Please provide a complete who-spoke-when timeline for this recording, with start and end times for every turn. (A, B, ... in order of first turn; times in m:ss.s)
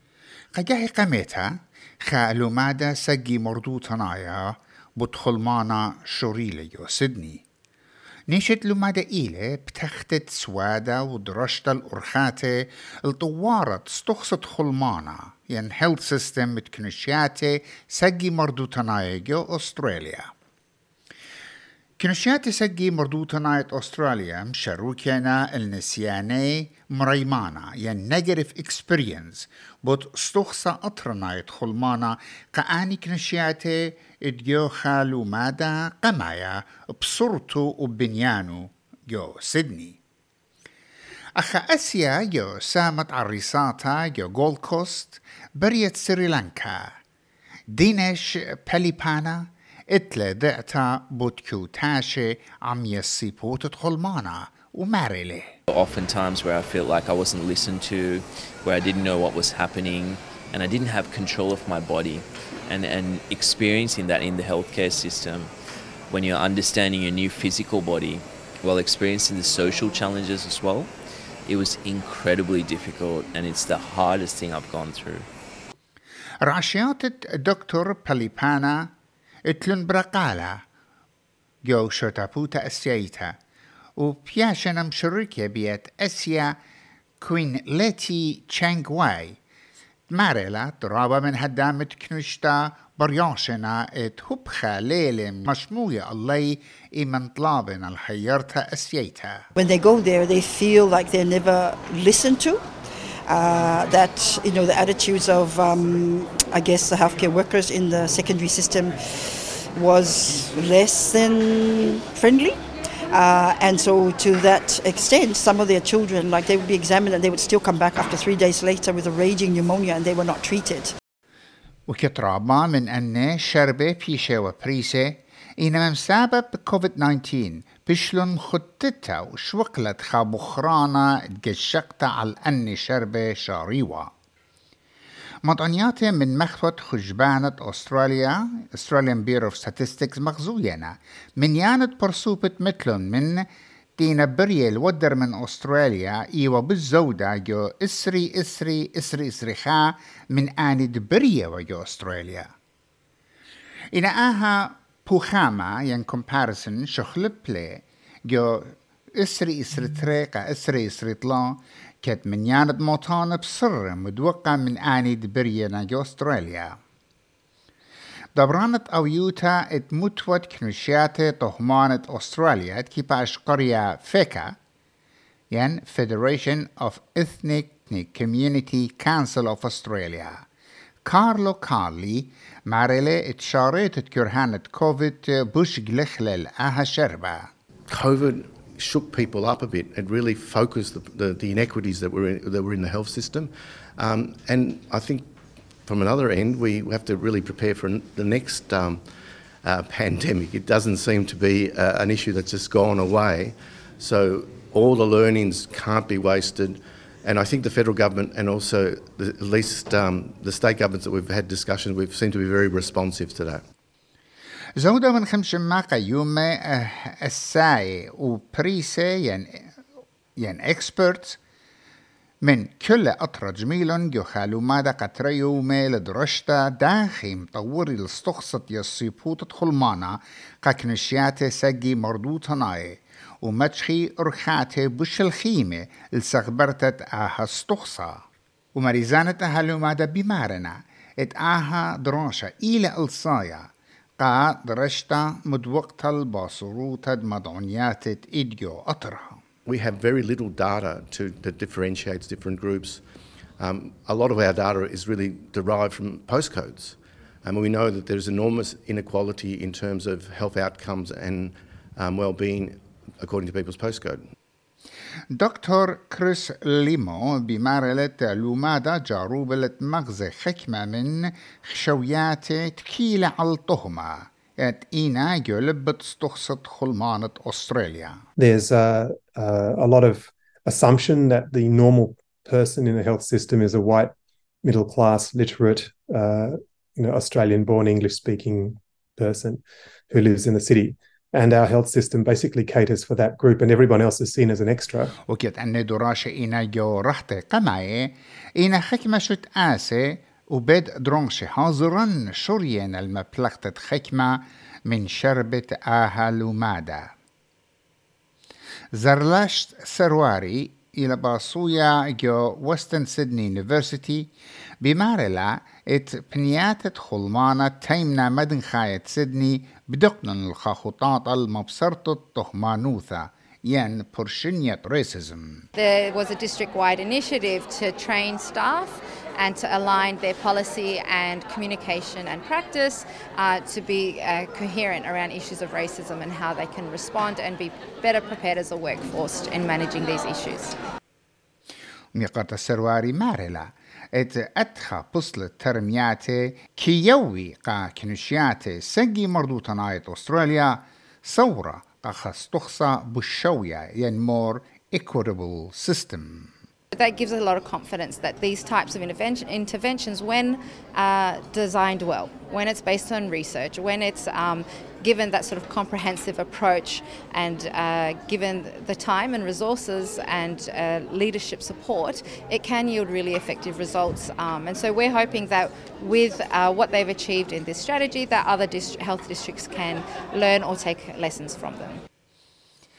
0:00.5-0:07.4 A
0:08.3-0:20.3 A
0:22.0-0:40.0 A
0:41.4-0:47.0 A
0:47.7-0:55.6 A
0:55.7-1:05.5 B
1:06.1-1:10.9 B
1:11.4-1:15.3 B
1:16.4-1:18.9 A
1:19.4-1:20.6 A
1:21.6-1:23.4 A
1:24.0-1:26.6 A
1:27.2-1:29.4 A
1:30.1-1:39.4 A
1:39.6-1:42.6 C
1:43.3-1:52.6 C
1:53.1-2:00.9 C
2:01.9-2:14.1 A
2:15.4-2:32.5 A
2:33.9-2:46.8 A
2:48.4-2:54.6 A
2:55.5-3:00.5 A
3:01.0-3:07.5 A
3:07.9-3:15.3 D
3:15.9-3:19.1 D
3:19.6-3:33.6 D
3:34.8-3:39.7 A
3:40.4-3:41.4 A
3:42.4-4:09.4 A
4:09.7-4:13.0 D
4:13.6-4:24.2 D
4:25.3-4:38.2 A
4:38.4-4:55.1 E
4:55.3-5:07.1 A
5:08.9-5:25.7 A
5:25.8-5:40.8 F
5:42.1-5:56.5 A
5:56.9-6:22.0 F